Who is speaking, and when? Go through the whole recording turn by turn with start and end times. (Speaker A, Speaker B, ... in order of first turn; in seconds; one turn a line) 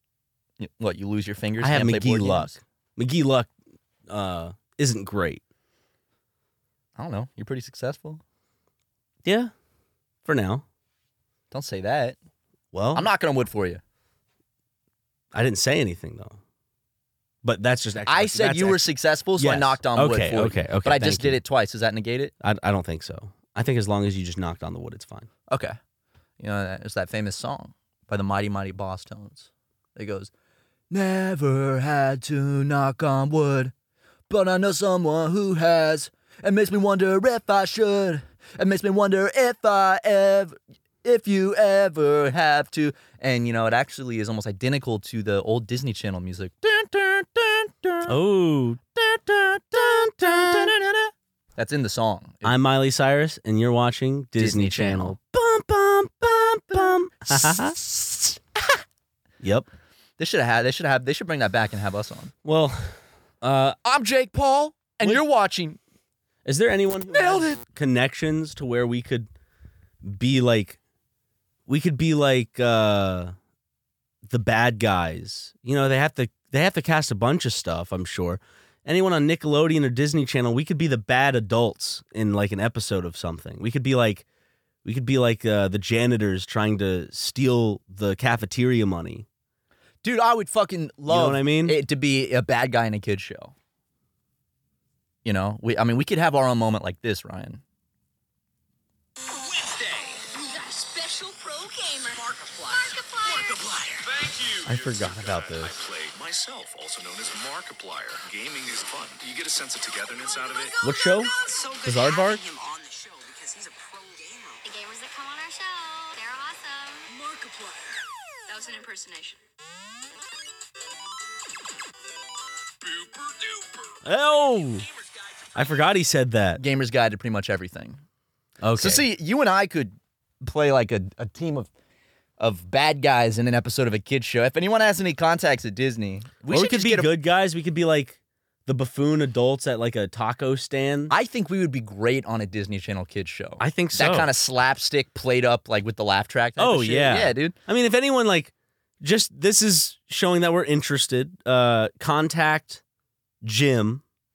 Speaker A: 0.6-2.5
Speaker B: 1.6-3.5
Speaker B: 4.1-5.4
Speaker A: 7.0-8.2
Speaker B: 9.2-9.5
Speaker B: 10.2-10.6
Speaker A: 11.5-12.2
Speaker B: 12.7-13.1
Speaker A: 12.9-13.8
Speaker B: 15.3-16.4
Speaker B: 17.4-18.8
Speaker A: 18.1-22.3
Speaker B: 19.4-21.4
Speaker B: 22.4-25.3
Speaker A: 25.5-25.8
Speaker A: 26.4-30.3
Speaker A: 30.9-33.7
Speaker A: 34.3-48.1
Speaker B: 48.0-48.8
Speaker A: 49.0-52.5
Speaker B: 49.8-50.7
Speaker B: 52.4-57.8
Speaker A: 54.4-55.1
Speaker A: 57.5-58.3
Speaker B: 59.4-59.7
Speaker A: 60.2-62.3
Speaker B: 62.4-63.8
Speaker A: 63.8-65.8
Speaker B: 66.4-69.3
Speaker A: 67.1-67.6
Speaker B: 70.0-70.8
Speaker B: 71.7-73.3
Speaker B: 74.2-84.2
Speaker B: 84.8-89.2
Speaker A: 90.0-93.5
Speaker B: 91.1-91.8
Speaker A: 95.2-97.6
Speaker C: 99.3-104.1
Speaker D: 102.8-103.5
Speaker E: 104.0-110.8
Speaker B: 104.6-105.7
Speaker B: 110.8-112.4
Speaker C: 111.2-114.6
Speaker D: 114.6-117.0
Speaker C: 117.1-119.1
Speaker D: 118.5-119.3
Speaker C: 122.8-124.0
Speaker B: 124.0-124.8
Speaker C: 124.8-125.3
Speaker B: 125.5-126.6
Speaker A: 126.6-128.0
Speaker B: 128.6-129.0
Speaker A: 128.8-131.7
Speaker A: 132.4-137.1
Speaker B: 136.5-141.1
Speaker A: 141.1-147.5
Speaker B: 143.6-144.3
Speaker B: 146.6-152.8
Speaker B: 153.4-154.0